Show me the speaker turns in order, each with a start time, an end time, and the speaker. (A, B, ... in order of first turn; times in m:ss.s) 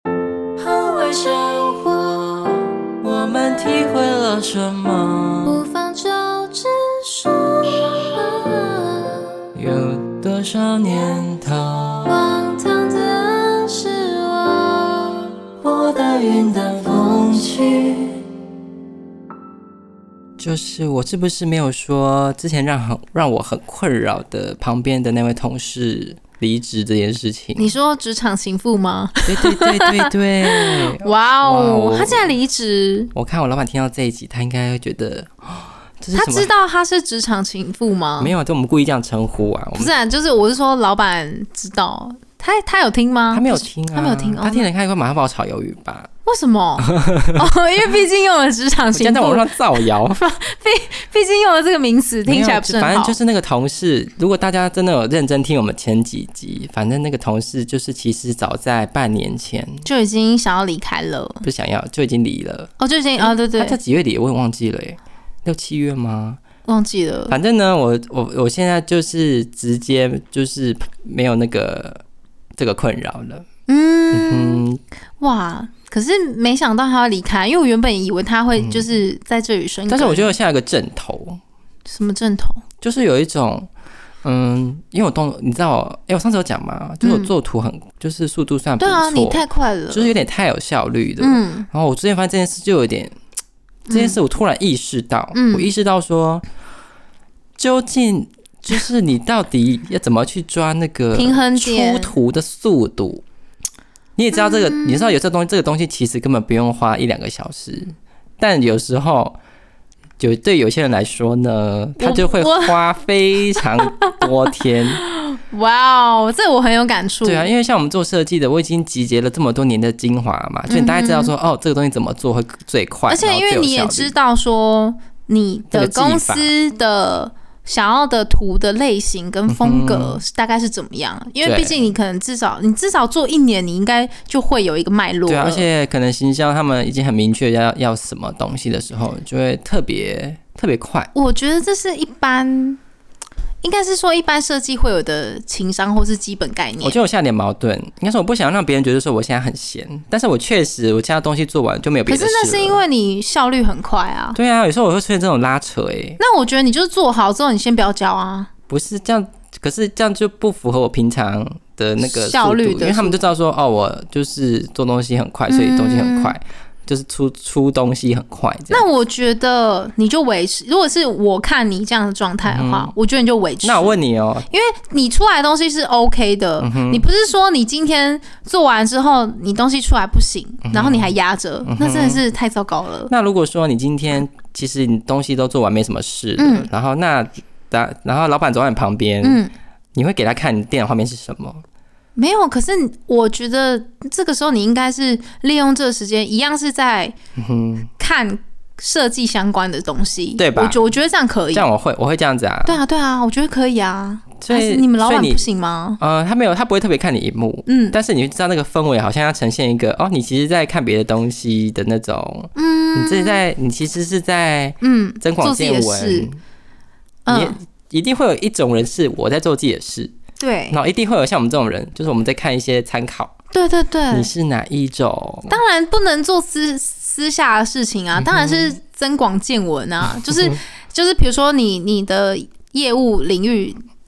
0:00.6-0:02.6 A
0:03.0-0:05.6 B
0:05.4-0:09.1 C
0:09.5-0:11.9 B
0:12.0-0:15.3 C
0:15.6-0:18.2 A
0:20.4-0:27.7 B
0:27.6-0:33.1 C
0:29.2-0:32.3 B
0:33.1-0:36.5 B
0:36.1-0:38.3 C
0:38.2-0:39.9 B
0:39.8-0:44.7 C
0:43.3-0:46.1 B
0:46.2-0:53.2 C
0:46.8-0:47.5 B
0:48.9-0:50.2 B
0:52.2-0:59.8 B
0:59.8-1:01.4 C
1:01.4-1:06.4 B
1:02.8-1:03.8 C
1:06.6-1:07.4 C
1:07.3-1:12.0 B
1:12.6-1:13.4 B
1:13.7-1:14.6 C
1:14.1-1:14.8 B
1:15.2-1:20.3 C
1:18.6-1:18.8 B
1:19.9-1:21.4 B
1:21.8-1:22.6 C
1:22.8-1:23.7 B
1:24.2-1:33.1 B
1:27.0-1:27.3 C
1:28.8-1:30.2 C
1:31.2-1:31.7 C
1:33.9-1:34.2 C
1:33.9-1:36.4 B
1:35.3-1:35.7 C
1:37.6-1:43.2 B
1:41.1-1:42.1 C
1:44.2-1:49.4 B
1:44.3-1:45.1 C
1:50.2-1:55.0 B
1:52.0-1:52.8 C
1:55.0-1:57.5 C
1:57.2-2:04.1 B
2:00.7-2:01.3 C
2:03.1-2:15.6 C
2:05.7-2:06.5 B
2:09.5-2:10.2 B
2:11.4-2:11.9 B
2:15.3-2:21.1 B
2:21.1-2:22.8 C
2:23.6-2:27.0 C
2:26.8-2:32.8 B
2:32.1-2:34.4 C
2:34.3-2:36.2 B
2:36.2-2:38.5 C
2:38.7-2:48.8 B
2:42.0-2:43.2 C
2:45.5-2:46.4 C
2:48.7-2:54.0 C
2:52.4-2:52.9 B
2:53.6-2:54.5 B
2:54.5-3:03.1 C
2:56.6-2:57.0 B
3:00.6-3:01.1 B
3:01.6-3:02.2 B
3:03.1-3:09.4 B
3:06.4-3:06.7 C
3:09.2-3:09.5 C
3:09.9-3:11.6 B
3:12.2-3:17.1 C
3:17.4-3:17.9 B
3:18.0-3:21.7 C
3:20.4-3:20.8 B
3:21.5-3:22.8 B
3:22.6-3:26.0 C
3:24.4-3:25.4 B
3:26.0-3:36.4 B
3:27.7-3:28.0 C
3:32.5-3:33.4 C
3:34.8-3:36.3 C
3:37.2-3:37.6 C
3:37.3-3:40.1 B
3:40.4-3:40.8 C
3:40.7-3:43.4 B
3:43.5-3:44.3 C
3:44.1-3:45.6 B
3:45.5-3:53.8 C
3:48.2-3:48.8 B
3:50.3-3:50.6 B